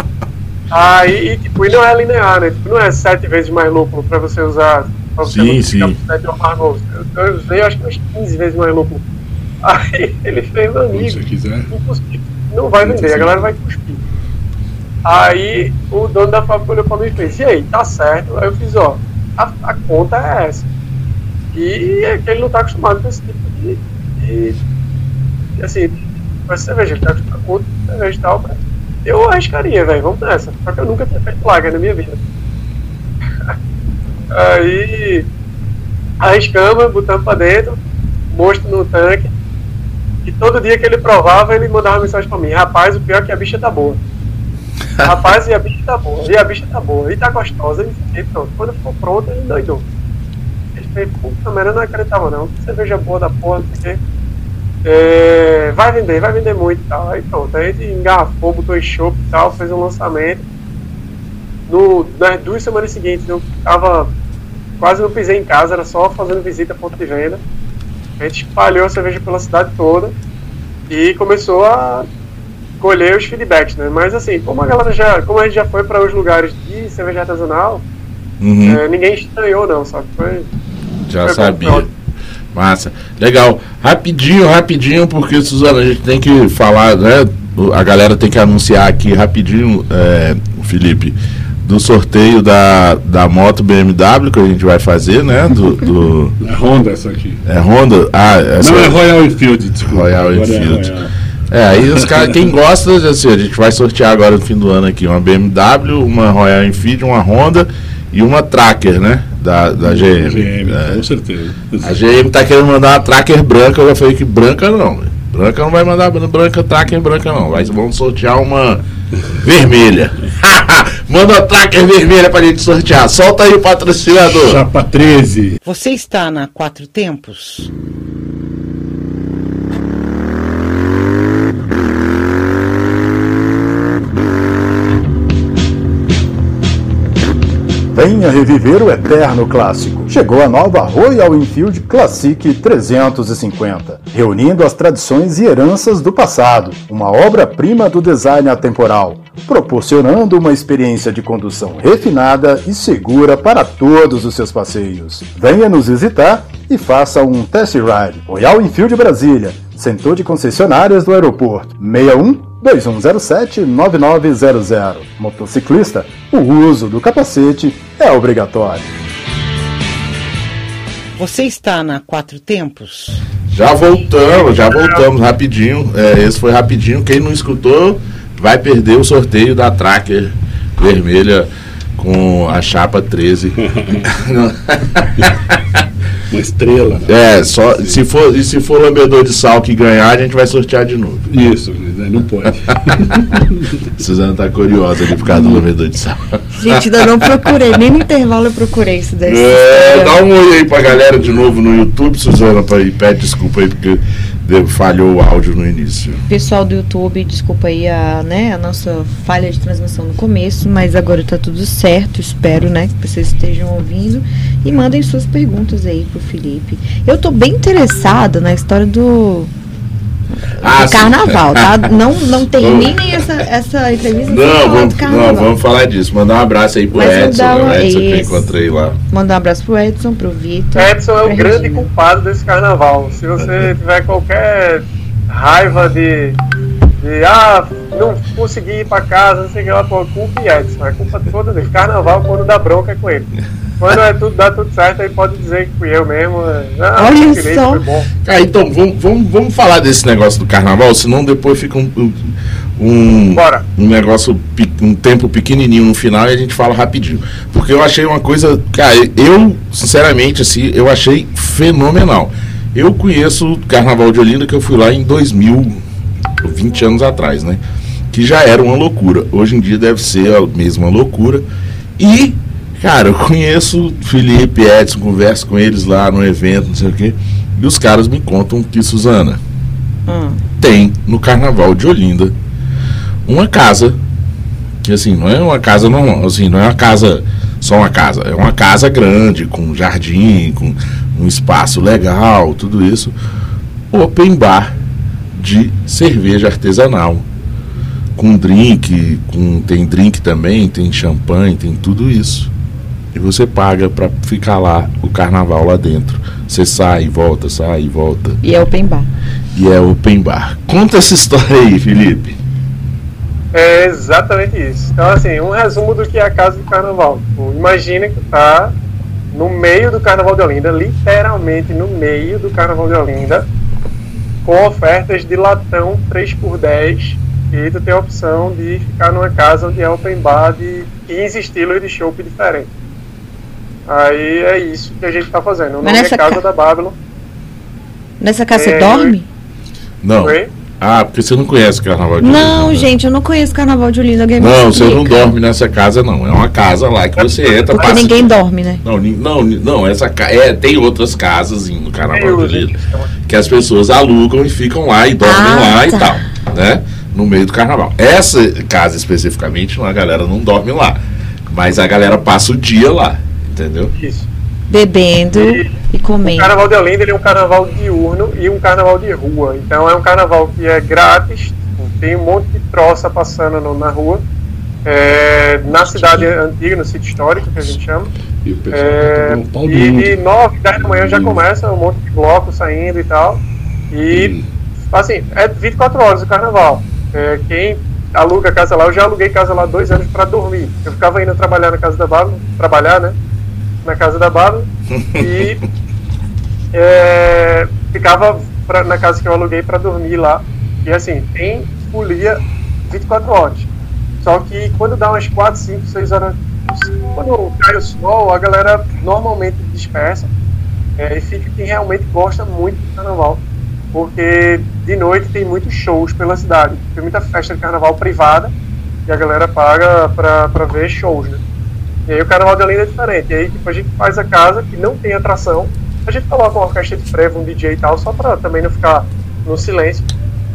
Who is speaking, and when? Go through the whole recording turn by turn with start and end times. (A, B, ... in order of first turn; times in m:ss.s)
0:00.7-0:09.0 A
0:05.2-0:06.0 B
0:09.6-0:14.0 A
0:10.9-0:11.7 C
0:12.8-0:13.5 C
0:15.0-0:20.7 A
0:21.5-0:24.6 A
0:25.6-0:32.2 A
0:34.3-0:35.3 A
0:36.2-0:37.8 A
0:38.3-0:39.3 A
0:40.3-0:44.0 A
0:45.0-0:49.8 A
0:50.8-0:54.0 A
0:54.8-1:00.4 A
1:01.7-1:04.1 A
1:04.8-1:07.4 A
1:08.2-1:10.1 A
1:10.9-1:12.1 A
1:12.8-1:17.8 A
1:18.4-1:18.8 B
1:18.6-1:20.5 A
1:21.1-1:21.9 B
1:21.2-1:21.8 A
1:22.5-1:36.4 B
1:36.4-1:37.4 C
1:37.4-1:39.0 B
1:38.6-1:41.1 C
1:39.8-1:41.0 B
1:41.5-1:51.0 B
1:41.9-1:42.4 C
1:49.9-1:52.0 C
1:51.8-1:58.8 B
1:59.4-2:04.6 B
2:04.4-2:05.6 C
2:05.6-2:07.7 D
2:17.9-2:48.9 E
2:51.2-2:53.2 D
2:53.5-3:05.8 B
2:54.4-2:55.0 A
3:03.6-3:04.1 C
3:06.3-3:08.0 C
3:07.0-3:11.2 B
3:11.3-3:13.5 C
3:14.0-3:17.3 B
3:16.6-3:20.2 F
3:19.3-3:26.2 B
3:26.3-3:39.5 F
3:40.6-3:45.5 F
3:40.6-3:43.2 B
3:44.3-3:49.0 B
3:46.9-3:48.5 F
3:49.1-3:51.9 F
3:50.8-3:56.4 A
3:57.0-4:03.3 A
4:03.8-4:08.1 A
4:07.0-4:07.8 F
4:08.2-4:25.8 B
4:13.3-4:13.6 A
4:26.4-4:27.6 B
4:28.1-4:31.4 B
4:32.0-4:39.4 B
4:40.1-4:40.4 F
4:40.6-4:42.3 B
4:43.3-4:44.0 B
4:44.8-4:53.2 B
4:53.9-4:54.7 B
4:55.3-4:57.3 B
4:58.2-5:02.5 B
5:03.1-5:08.4 B
5:08.4-5:09.1 F
5:09.5-5:12.4 B
5:13.5-5:18.7 A
5:19.3-5:23.5 A
5:24.4-5:32.7 A
5:33.9-5:37.0 A
5:35.8-5:36.4 F
5:38.2-5:39.3 F
5:38.5-5:39.1 A
5:40.0-5:42.9 B
5:40.2-5:40.5 A
5:42.2-5:45.3 F
5:44.4-5:48.3 B
5:47.7-5:48.8 F
5:47.8-5:48.0 A
5:48.8-5:52.7 B
5:52.1-5:53.1 A
5:53.3-6:03.9 B
5:55.2-5:56.2 F
6:04.0-6:04.3 A
6:04.7-6:06.5 F
6:05.4-6:05.7 A
6:06.2-6:14.2 A
6:14.8-6:18.1 A
6:15.7-6:16.3 F
6:18.4-6:20.2 C
6:18.7-6:24.3 A
6:20.8-6:21.4 C
6:24.1-6:24.4 C
6:24.9-6:33.2 A
6:33.8-6:35.6 A
6:35.0-6:35.3 B
6:36.7-6:43.7 A
6:44.2-6:50.3 A
6:51.0-6:53.4 A
6:53.9-6:58.5 A
6:59.1-7:01.4 A
7:02.1-7:10.1 A